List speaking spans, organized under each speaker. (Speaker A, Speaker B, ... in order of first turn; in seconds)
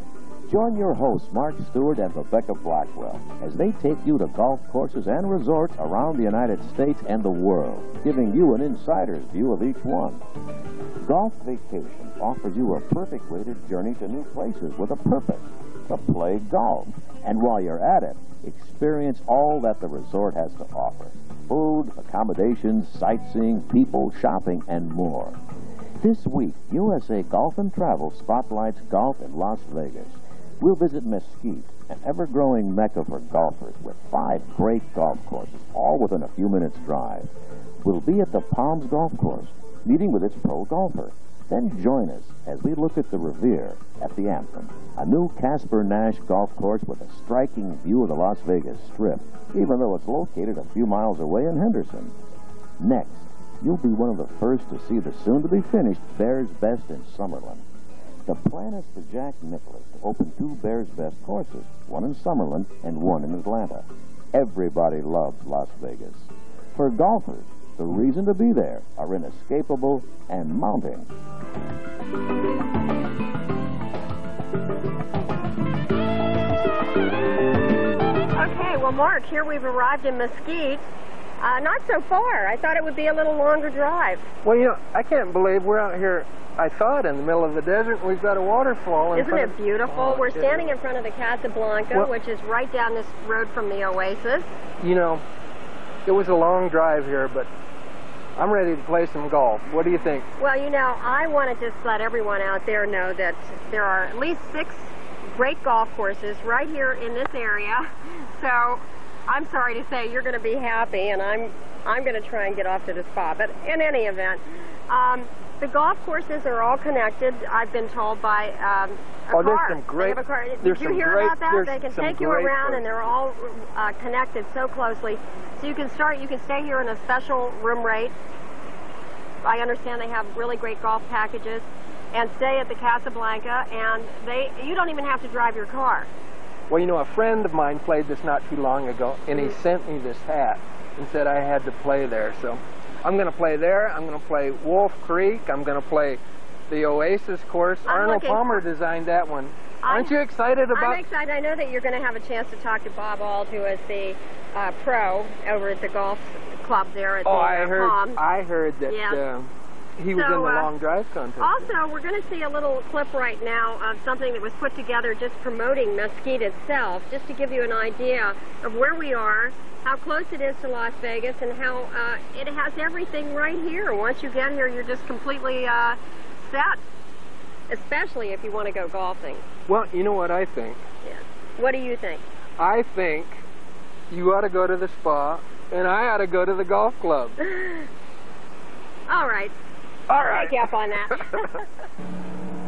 Speaker A: 0.5-10.2, 11.0-25.4, 26.0-37.3, 37.8-52.1, 52.8-57.6, 58.3-71.1
Speaker B: 78.3-80.9, 81.4-84.3, 89.1-94.6, 100.4-128.2, 129.4-136.1, 147.9-148.7, 149.8-150.2, 150.7-158.2, 158.9-159.2, 160.1-160.7, 161.4-176.8, 177.7-179.4, 181.0-182.2, 187.5-187.8, 189.1-189.5, 190.1-191.6
Speaker C: 84.4-90.8, 94.8-95.2, 96.0-97.5, 98.4-100.3, 119.3-122.9, 136.7-151.0, 157.2-161.7, 179.7-180.8, 182.6-183.4, 184.1-187.3, 190.1-190.6